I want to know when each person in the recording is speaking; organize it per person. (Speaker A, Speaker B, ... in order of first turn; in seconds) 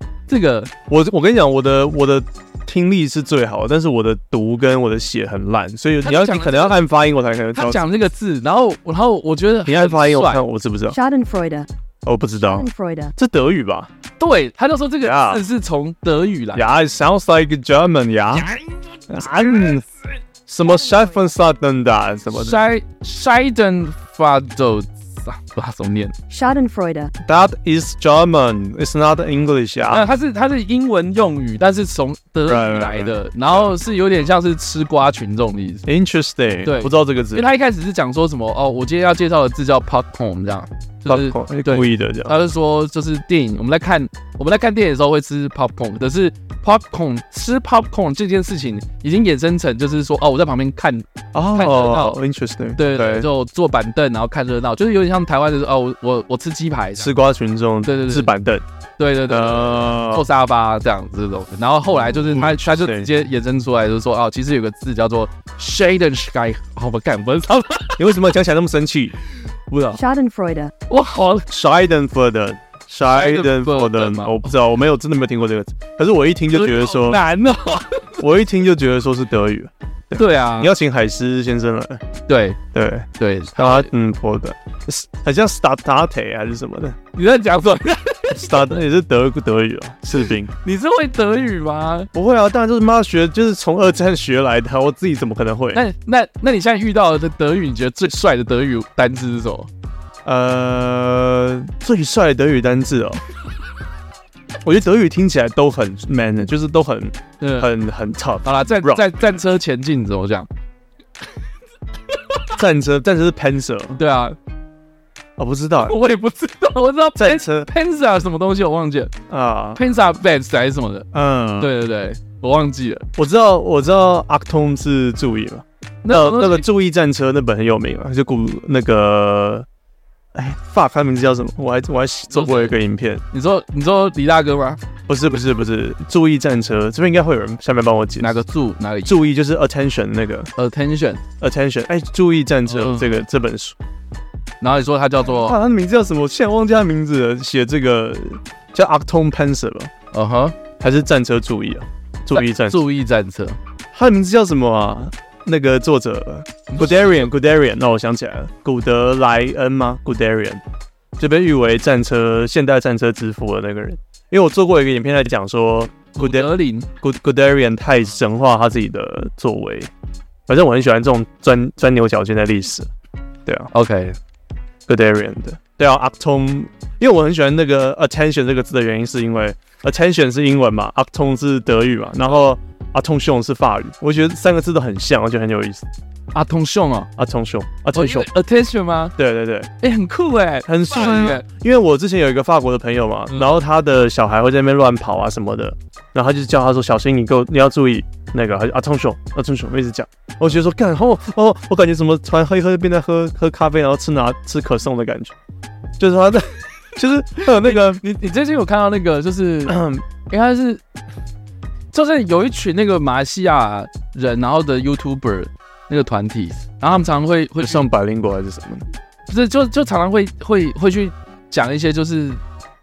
Speaker A: 0.3-0.7, 6.0-6.8, 7.5-10.4, 14.2-16.6, 22.3-26.1, 29.9-35.9, 36.6-52.2, 52.8-57.1, 57.8-58.3, 59.0-68.0, 70.9-71.5, 73.1-74.5, 76.5-78.2, 80.2-80.7, 82.3-82.6, 83.2-83.9, 87.1-88.7, 90.1-92.1, 95.7-99.7, 107.4-107.7, 108.4-110.5, 114.0-114.4, 115.8-119.1, 119.8-121.1, 121.6-123.1, 126.0-126.7, 132.3-132.8, 133.3-134.8, 138.2-139.2, 140.6-141.2, 142.7-143.1, 144.6-145.6, 150.1-150.6, 152.3-153.6, 156.7-157.1, 166.2-166.9, 173.7-174.2, 186.3-187.1, 187.9-189.2, 189.8-191.4, 207.6-210.8, 211.9-217.8, 219.3-222.4
Speaker B: 0.9-7.8, 9.7-11.0, 12.1-13.9, 15.0-15.4, 16.5-18.5, 19.1-19.9, 20.5-22.6, 27.2-30.1, 32.5-33.1, 35.9-37.5, 41.1-42.3, 51.3-53.3, 57.0-58.6, 59.3-60.3, 62.1-63.1, 68.0-69.2, 69.7-70.0, 71.5-77.2, 78.2-82.0, 82.7-87.0, 88.3-90.5, 92.1-95.8, 100.2-103.2, 104.6-109.1, 112.5-114.0, 115.4-116.0, 117.2-117.7, 119.3-119.8, 121.1-121.7, 123.2-129.7, 130.3-133.2, 135.1-138.4, 139.1-140.5, 141.4-143.8, 145.2-149.9, 150.8-152.8, 153.9-160.6, 161.2-169.9, 170.5-172.9, 174.9-185.9, 187.2-188.3, 189.2-189.7, 190.7-205.3, 206.0-208.0, 209.7-210.1, 217.6-218.8
Speaker C: 10.9-11.7, 12.4-13.1, 26.3-27.1, 69.9-70.7